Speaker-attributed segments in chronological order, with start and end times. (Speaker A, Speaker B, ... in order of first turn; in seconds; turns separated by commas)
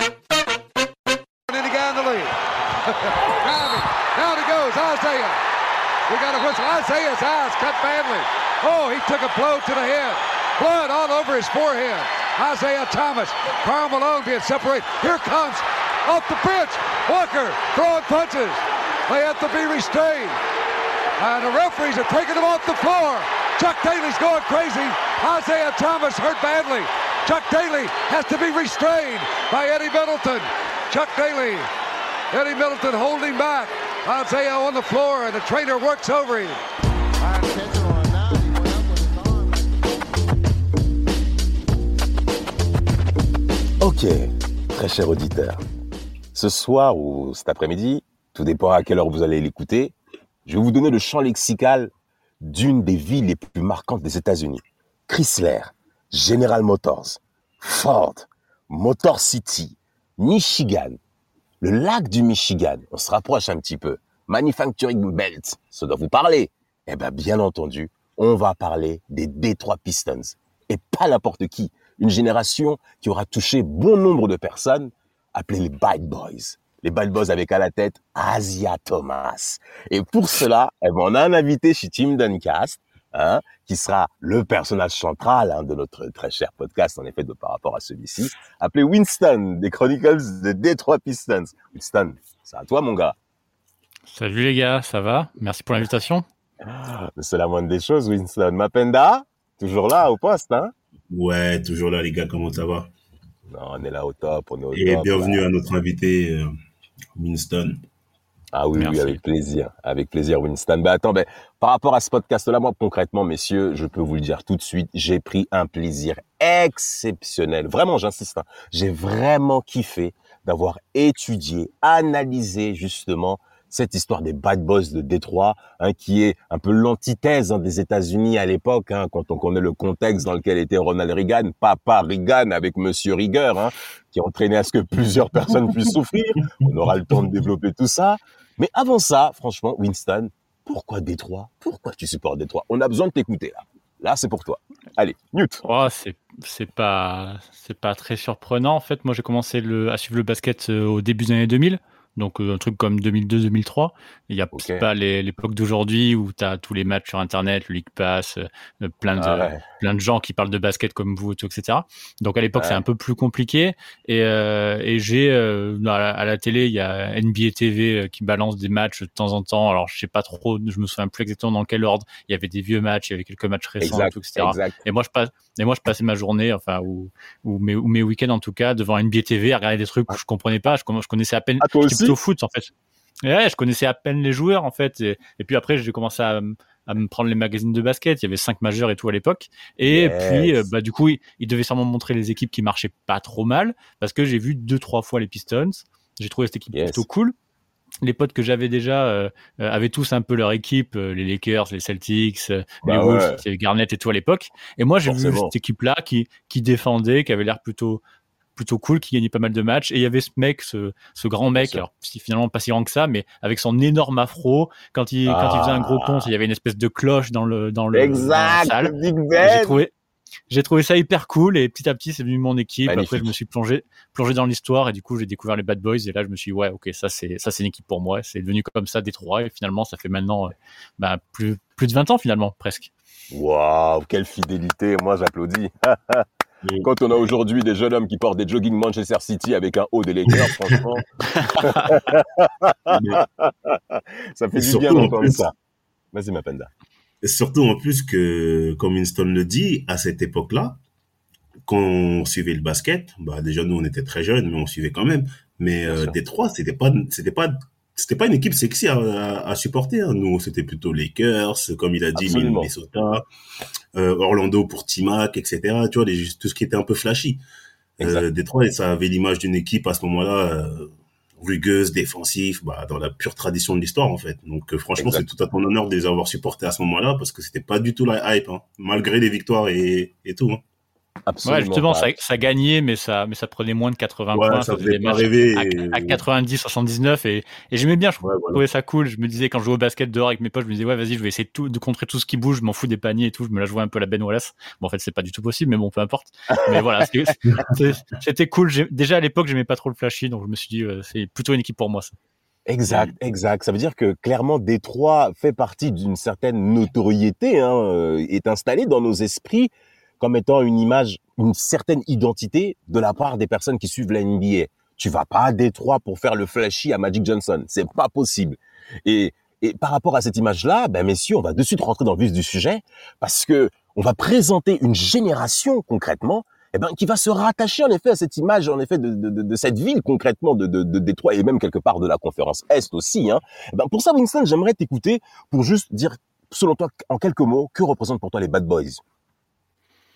Speaker A: 1.5-2.3, Speaker A: 2.9-5.4, Speaker A: 6.1-20.4, Speaker A: 21.2-31.7, Speaker A: 32.3-36.6, Speaker A: 37.4-38.4, Speaker B: 43.8-45.6, Speaker B: 46.3-49.9, Speaker B: 50.5-61.0, Speaker B: 61.6-93.2, Speaker C: 94.1-96.2, Speaker B: 96.6-100.7, Speaker D: 101.1-102.9, Speaker B: 103.5-105.4, Speaker D: 104.7-106.5, Speaker D: 107.2-107.8, Speaker B: 108.5-145.6, Speaker C: 108.8-109.2, Speaker C: 145.6-182.7, Speaker B: 154.5-154.8, Speaker B: 159.2-159.6, Speaker B: 162.6-162.8, Speaker B: 173.8-174.8, Speaker B: 181.6-182.2, Speaker C: 183.2-197.3, Speaker B: 189.9-190.7, Speaker B: 196.7-197.0, Speaker C: 198.0-208.0, Speaker B: 202.8-203.4, Speaker B: 205.1-205.5, Speaker C: 208.6-219.9, Speaker B: 211.5-211.8, Speaker B: 215.2-216.3, Speaker B: 217.9-219.8, Speaker C: 220.5-232.9, Speaker B: 222.9-223.3, Speaker B: 233.3-236.2, Speaker D: 236.6-236.9, Speaker B: 236.8-245.5, Speaker C: 241.5-241.8, Speaker D: 242.9-243.2, Speaker D: 244.6-245.4, Speaker B: 246.1-246.7, Speaker D: 247.2-250.8, Speaker D: 251.7-263.2, Speaker B: 255.9-256.1, Speaker B: 262.1-262.7, Speaker D: 263.9-267.4, Speaker D: 268.0-280.6, Speaker B: 268.0-268.2, Speaker B: 274.9-275.2, Speaker B: 281.2-282.1, Speaker C: 281.4-302.1, Speaker D: 284.3-286.2, Speaker D: 288.2-288.6, Speaker B: 296.5-296.8, Speaker B: 302.6-339.0